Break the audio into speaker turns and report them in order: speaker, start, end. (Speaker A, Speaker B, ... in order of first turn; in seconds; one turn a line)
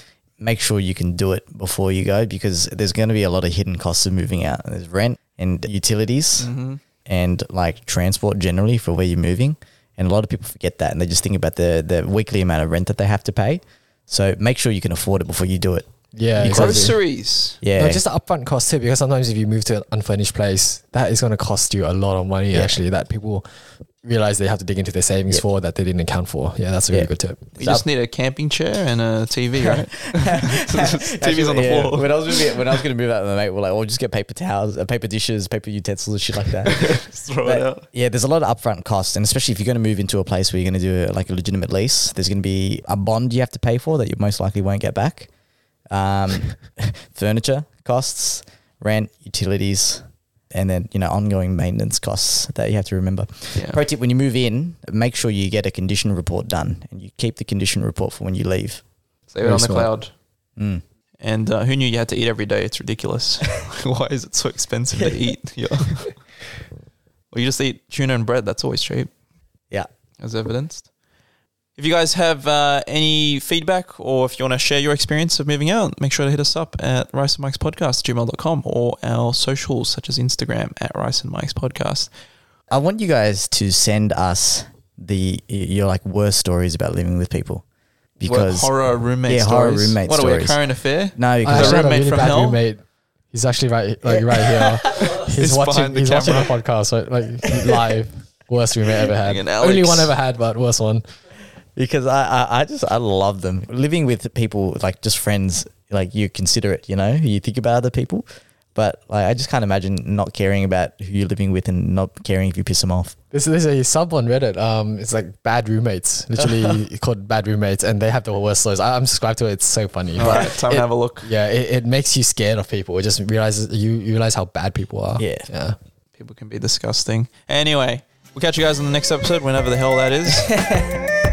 Speaker A: 0.4-6.5
Speaker B: 6.4-6.8
Speaker A: 7.0-16.9
Speaker C: 16.1-16.9
Speaker B: 16.4-17.6
Speaker A: 17.6-18.0
Speaker C: 17.8-23.4
Speaker A: 22.5-22.8
Speaker C: 24.0-27.5
Speaker A: 26.9-27.8
Speaker B: 27.6-32.7
Speaker A: 29.6-45.3
Speaker B: 36.6-37.8
Speaker A: 45.9-58.8
Speaker B: 59.3-60.1
Speaker C: 59.4-59.9
Speaker A: 60.6-60.8
Speaker B: 61.2-66.1
Speaker A: 64.9-65.2
Speaker B: 67.3-69.1
Speaker B: 70.2-70.8
Speaker B: 71.8-82.1
Speaker A: 82.7-87.6
Speaker A: 88.2-88.7
Speaker B: 88.2-92.6
Speaker A: 89.3-90.6
Speaker A: 91.2-91.9
Speaker C: 91.4-92.8
Speaker C: 93.3-101.0
Speaker A: 94.0-95.0
Speaker B: 94.8-96.5
Speaker A: 97.5-98.0
Speaker B: 99.2-100.1
Speaker A: 101.8-113.2
Speaker C: 113.3-125.8
Speaker A: 116.4-116.8
Speaker B: 120.2-121.3
Speaker A: 120.2-120.5
Speaker A: 125.2-125.5
Speaker B: 126.2-130.5
Speaker A: 130.3-131.0